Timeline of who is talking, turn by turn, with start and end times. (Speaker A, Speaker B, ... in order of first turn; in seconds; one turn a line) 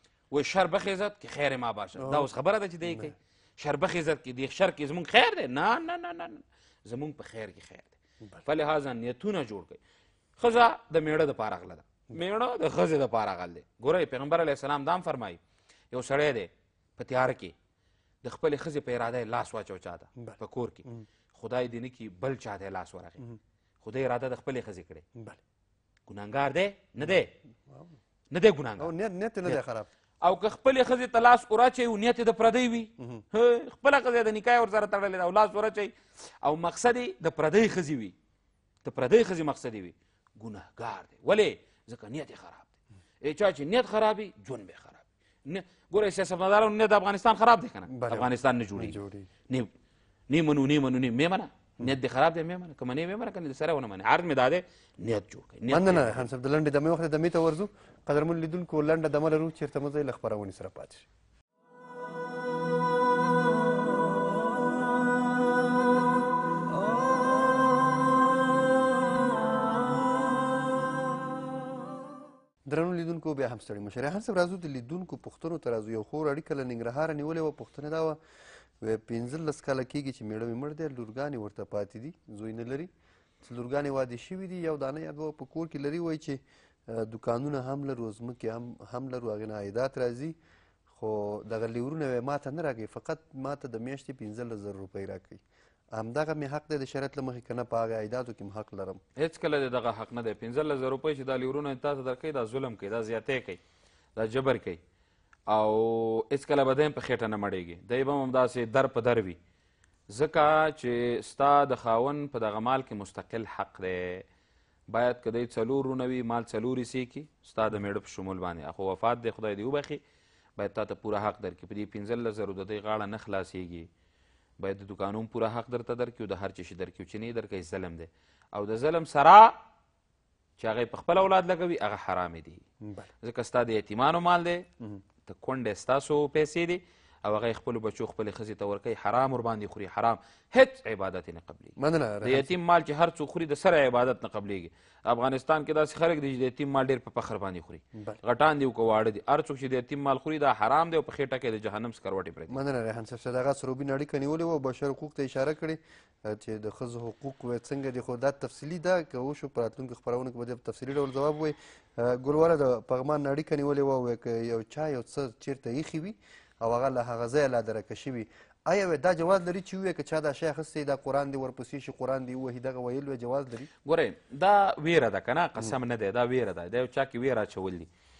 Speaker A: 0.3-9.8
Speaker B: 2.0-2.3
Speaker B: 2.9-3.1
Speaker A: 10.4-15.4
Speaker A: 15.9-17.5
Speaker A: 18.2-20.8
Speaker B: 20.2-21.1
Speaker A: 21.3-23.2
Speaker A: 23.8-25.0
Speaker A: 26.1-27.3
Speaker B: 27.7-28.0
Speaker A: 28.3-28.9
Speaker B: 28.8-29.9
Speaker A: 30.2-38.1
Speaker B: 33.0-33.2
Speaker A: 38.8-49.0
Speaker B: 47.9-49.3
Speaker A: 50.3-56.3
Speaker B: 55.7-61.0
Speaker B: 72.7-78.2
Speaker B: 78.8-82.9
Speaker B: 83.4-90.3
Speaker B: 90.9-95.4
Speaker B: 95.9-99.0
Speaker A: 99.2-103.6
Speaker A: 104.2-104.8
Speaker A: 105.5-109.4
Speaker A: 110.1-114.2
Speaker A: 114.9-120.0
Speaker A: 120.6-123.9
Speaker A: 124.6-129.5
Speaker A: 130.6-132.6
Speaker B: 132.8-133.1
Speaker A: 133.2-134.7
Speaker A: 135.2-152.6
Speaker B: 141.8-142.5
Speaker B: 147.9-148.2
Speaker B: 152.5-173.7
Speaker A: 173.8-177.9